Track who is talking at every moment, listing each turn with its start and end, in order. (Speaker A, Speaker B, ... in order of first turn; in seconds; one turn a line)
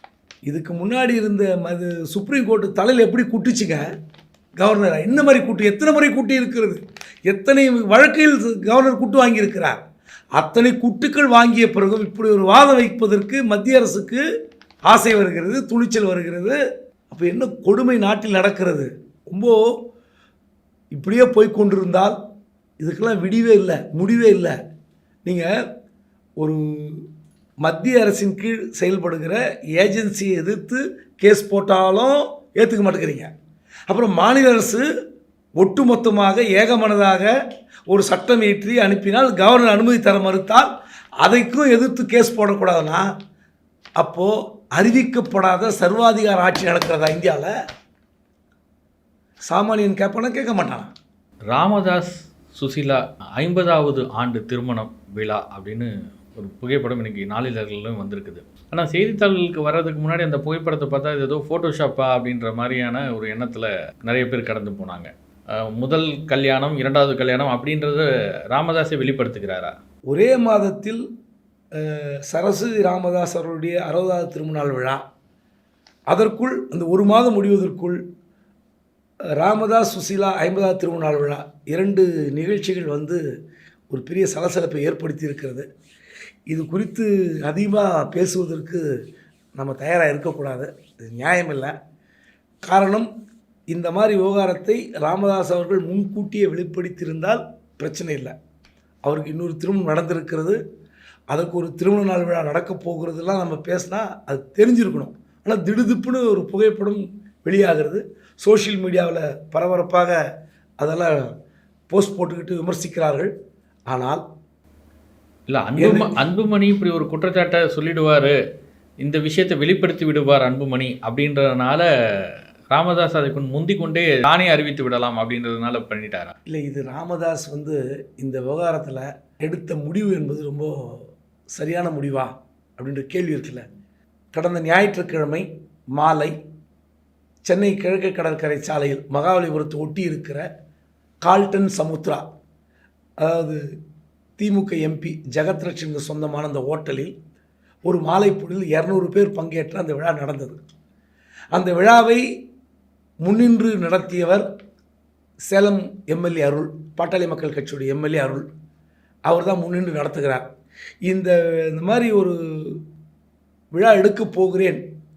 Speaker A: 0.5-3.8
Speaker A: 4.6-9.8
Speaker A: 10.4-14.2
Speaker A: 14.9-16.6
Speaker A: 17.1-19.6
Speaker A: 20.9-22.2
Speaker A: 22.8-24.6
Speaker A: 26.4-27.0
Speaker A: 27.6-33.3
Speaker A: 33.9-34.9
Speaker A: 35.6-37.3
Speaker A: 37.9-40.7
Speaker A: 41.2-43.1
Speaker A: 44.0-47.5
Speaker A: 49.5-50.9
Speaker B: 51.5-65.1
Speaker B: 65.6-69.7
Speaker A: 70.1-71.0
Speaker A: 71.8-75.0
Speaker A: 76.1-78.0
Speaker A: 79.4-83.2
Speaker A: 83.9-85.7
Speaker A: 86.5-88.9
Speaker A: 89.6-91.7
Speaker A: 92.7-93.1
Speaker A: 93.7-98.3
Speaker A: 99.0-100.6
Speaker A: 101.3-110.2
Speaker A: 110.8-111.2
Speaker A: 111.9-113.3
Speaker A: 113.9-114.2
Speaker B: 115.5-118.3
Speaker A: 115.8-116.1
Speaker B: 119.0-121.8
Speaker B: 122.7-126.3
Speaker A: 126.5-133.6
Speaker A: 134.3-135.4
Speaker A: 136.0-136.3
Speaker A: 137.5-140.4
Speaker A: 141.2-142.2
Speaker A: 143.2-143.6
Speaker A: 144.4-147.1
Speaker A: 147.8-150.6
Speaker A: 151.5-152.2
Speaker A: 153.2-154.5
Speaker A: 155.5-158.5
Speaker A: 159.3-160.4
Speaker A: 161.1-162.8
Speaker A: 163.8-164.8